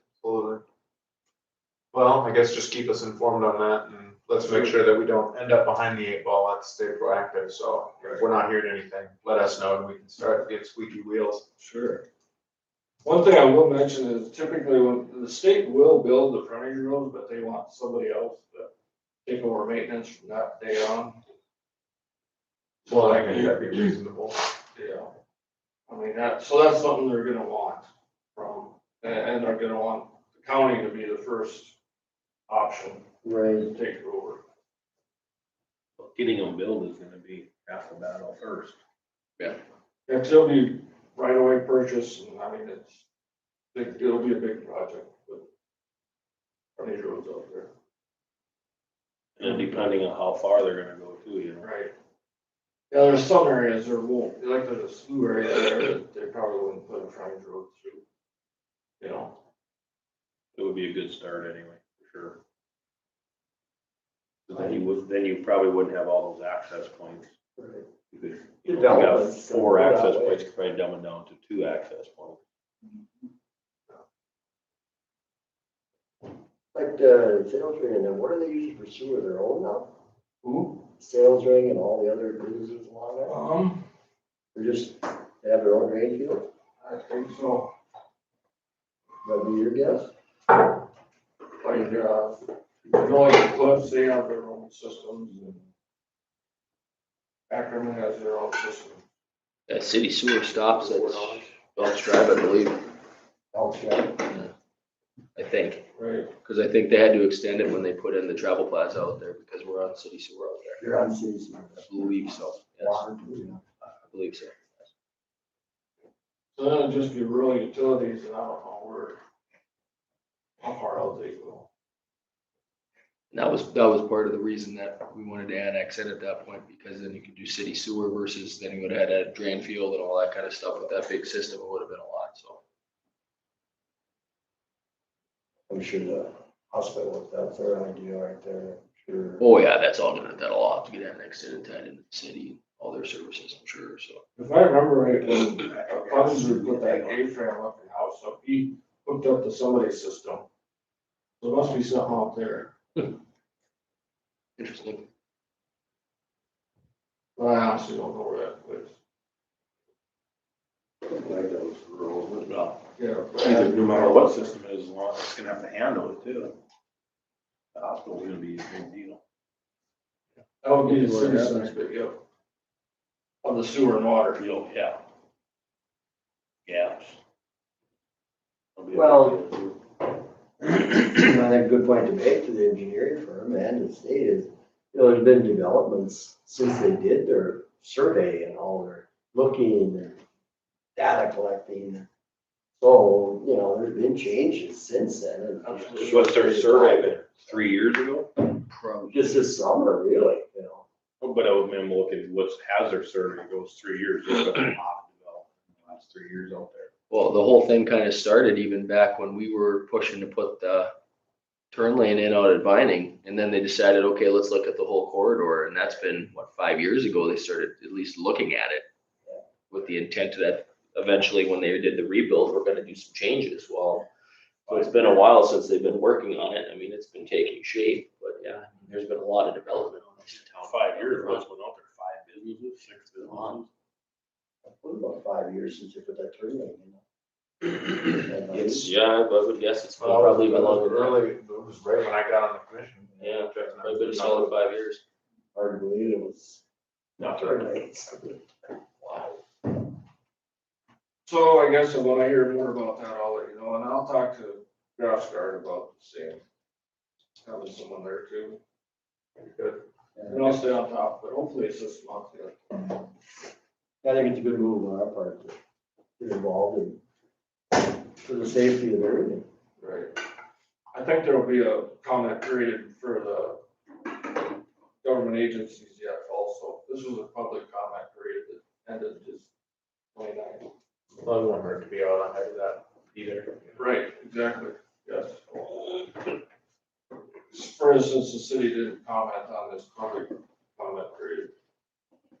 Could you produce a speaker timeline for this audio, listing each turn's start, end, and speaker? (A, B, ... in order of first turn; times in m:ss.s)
0:00.2-0:00.6 A
0:01.9-0:11.4 A
0:11.6-0:12.0 B
0:13.0-0:18.7 B
0:19.2-0:21.2 B
0:22.8-0:24.4 A
0:22.9-0:23.4 B
0:24.7-0:25.1 B
0:25.9-0:31.8 B
0:32.5-0:33.0 B
0:33.2-0:33.7 C
0:33.6-0:34.4 B
0:36.0-0:38.8 D
0:40.1-0:43.0 B
0:43.7-0:45.5 B
0:46.8-0:47.7 B
0:49.4-0:51.6 D
0:49.4-0:49.7 B
0:51.6-0:51.9 B
0:52.9-0:58.0 B
0:59.0-0:59.4 B
1:00.5-1:02.4 D
1:04.5-1:07.3 D
1:07.6-1:07.9 C
1:08.1-1:12.4 D
1:08.6-1:10.5 C
1:16.7-1:19.9 C
1:20.4-1:20.8 B
1:21.0-1:23.4 C
1:23.3-1:23.8 B
1:24.5-1:26.5 C
1:26.8-1:27.7 B
1:29.2-1:30.1 C
1:31.6-1:35.6 B
1:37.5-1:39.0 B
1:39.7-1:42.8 E
1:40.8-1:41.4 B
1:43.5-1:44.3 C
1:45.4-1:45.9 E
1:46.0-1:46.3 B
1:46.4-1:50.8 E
1:50.8-1:53.6 C
1:51.9-1:53.1 E
1:53.8-1:54.8 E
1:56.5-1:59.2 B
2:00.6-2:01.7 B
2:03.3-2:12.6 E
2:15.7-2:19.4 C
2:19.4-2:24.2 E
2:24.4-2:30.4 B
2:31.4-2:32.7 B
2:34.6-2:35.0 E
2:37.4-2:38.9 B
2:41.1-2:42.8 D
2:43.0-2:44.5 B
2:43.4-2:46.6 D
2:47.7-2:49.2 D
2:50.6-2:52.2 B
2:50.9-2:51.7 C
2:53.4-2:54.4 B
2:54.4-2:55.0 D
2:56.6-2:57.2 D
2:58.8-2:59.8 D
2:58.9-2:59.4 C
3:00.6-3:10.2 C
3:10.9-3:12.0 C
3:12.8-3:17.7 C
3:15.6-3:16.4 B
3:16.0-3:18.3 D
3:19.1-3:20.8 C
3:21.2-3:26.9 D
3:27.1-3:30.9 E
3:31.7-3:38.9 E
3:39.7-3:44.1 E
3:44.7-3:51.4 E
3:50.2-3:53.7 D
3:54.6-3:57.0 C
3:58.2-3:58.9 C
3:58.5-4:01.2 E
4:00.0-4:04.9 A
4:03.2-4:05.0 E
4:05.5-4:06.6 C
4:07.2-4:08.4 C
4:09.0-4:09.3 C
4:11.2-4:16.4 B
4:17.4-4:18.6 B
4:19.4-4:22.9 B
4:20.2-4:20.5 C
4:24.0-4:25.6 C
4:26.2-4:27.0 C
4:28.2-4:29.4 C
4:29.8-4:30.1 B
4:30.9-4:33.6 B
4:35.0-4:39.5 B
4:40.1-4:40.7 B
4:41.2-4:43.7 A
4:43.8-4:46.0 B
4:47.5-4:51.5 B